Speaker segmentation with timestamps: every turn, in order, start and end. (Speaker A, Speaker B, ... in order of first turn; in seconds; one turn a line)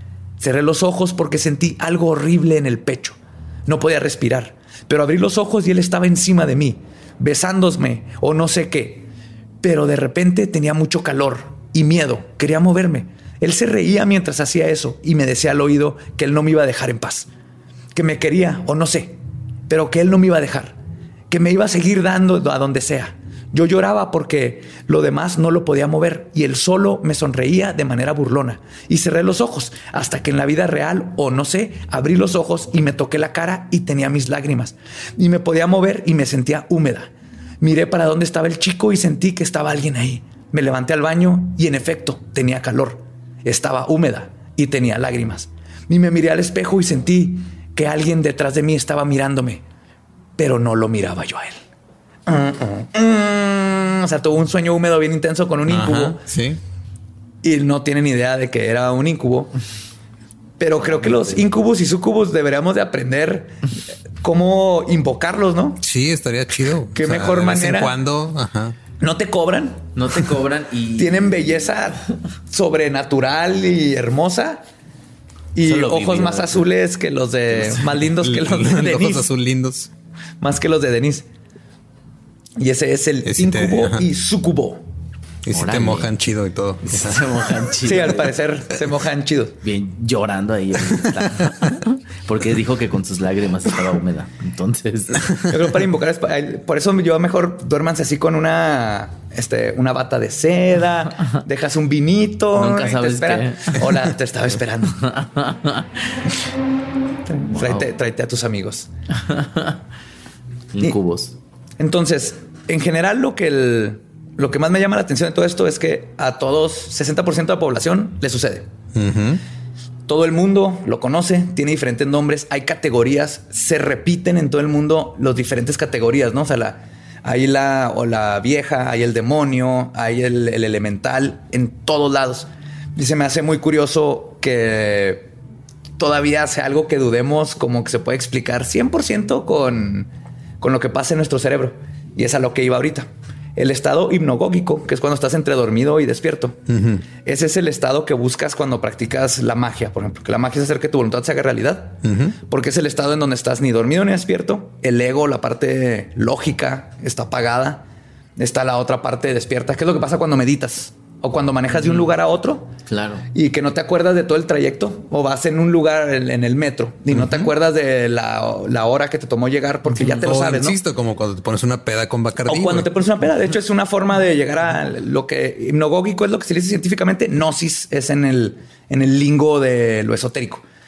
Speaker A: 0.4-9.1
Speaker A: 9.6-17.3
Speaker A: 17.9-19.2
Speaker A: 19.7-20.8
Speaker A: 21.3-37.1
Speaker A: 37.6-49.6
Speaker A: 50.4-51.6
Speaker A: 52.3-56.2
Speaker B: 55.7-56.6
Speaker A: 57.4-59.5
Speaker A: 60.6-63.5
Speaker C: 60.8-61.5
Speaker A: 64.2-65.8
Speaker B: 65.8-68.8
Speaker A: 67.0-67.9
Speaker A: 69.0-69.9
Speaker C: 70.0-71.7
Speaker A: 71.0-74.6
Speaker A: 75.5-79.3
Speaker C: 75.6-76.7
Speaker B: 78.0-79.9
Speaker A: 80.4-81.3
Speaker A: 82.6-84.9
Speaker B: 83.2-84.0
Speaker B: 85.5-87.4
Speaker C: 85.5-86.1
Speaker C: 86.9-88.3
Speaker A: 87.8-89.6
Speaker C: 89.6-95.4
Speaker A: 95.5-105.1
Speaker C: 102.5-104.1
Speaker C: 104.9-105.9
Speaker A: 107.3-108.9
Speaker C: 107.5-107.9
Speaker C: 109.2-109.8
Speaker C: 110.7-111.4
Speaker A: 111.8-118.7
Speaker B: 118.9-119.4
Speaker A: 120.1-135.3
Speaker A: 136.0-146.6
Speaker B: 146.7-147.0
Speaker A: 147.2-157.8
Speaker B: 152.1-152.4
Speaker A: 158.4-162.7
Speaker C: 162.9-163.2
Speaker A: 163.3-170.8
Speaker B: 167.1-167.5
Speaker B: 170.1-172.9
Speaker A: 172.5-180.6